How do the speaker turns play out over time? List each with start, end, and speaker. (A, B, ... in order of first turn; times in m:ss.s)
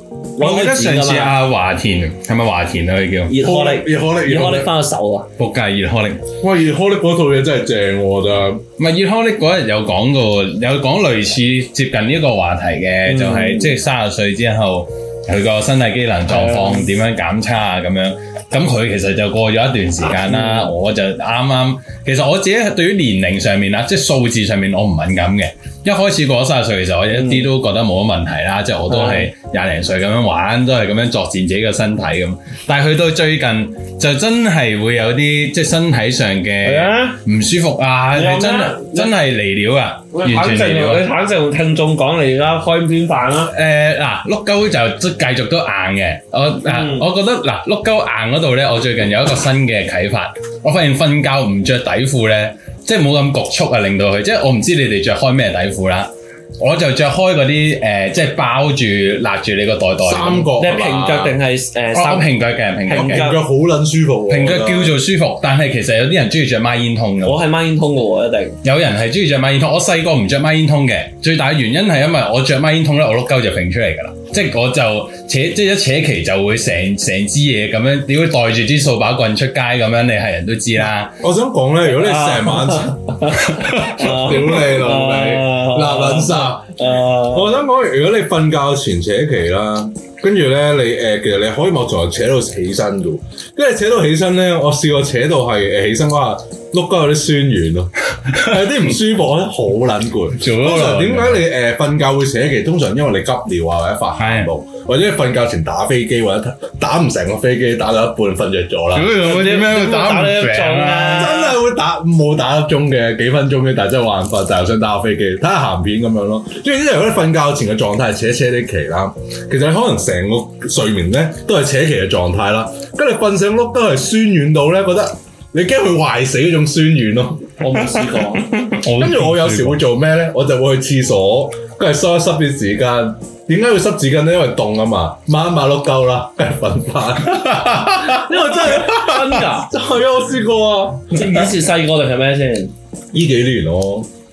0:00.4-0:01.3 A
0:00.4-0:03.4 B
0:03.3-0:05.3 A
0:03.4-0:04.7 C
0:05.4-0:06.2 B
0:06.4-0:08.6 C
0:08.8-0:41.1 B
0:13.0-0:13.8 A
0:16.3-0:16.9 A
0:20.2-0:20.7 A
0:27.1-0:27.5 A
0:28.9-0:29.3 A
0:36.6-0:37.2 A
0:38.1-0:39.1 A
0:40.1-0:43.5 A
0:43.5-1:01.3 B
0:46.6-0:47.1 A
1:00.0-1:01.0 C
1:00.6-1:03.4 A
1:01.9-1:03.4 B
1:02.9-1:05.0 C
1:04.3-1:07.4 B
1:07.2-1:08.6 A
1:08.6-1:21.2 B
1:21.2-1:23.1 C
1:21.9-1:27.6 A
1:23.7-1:49.4 C
1:40.4-1:41.4 B
1:44.2-1:44.5 B
1:48.9-1:51.3 B
1:49.2-1:51.6 A
1:51.1-2:07.5 C
2:07.6-2:08.5 A
2:08.6-2:09.8 B
2:09.0-2:21.5 C
2:17.4-2:18.0 B
2:18.7-2:19.7 A
2:21.1-2:22.7 A
2:23.1-2:24.1 C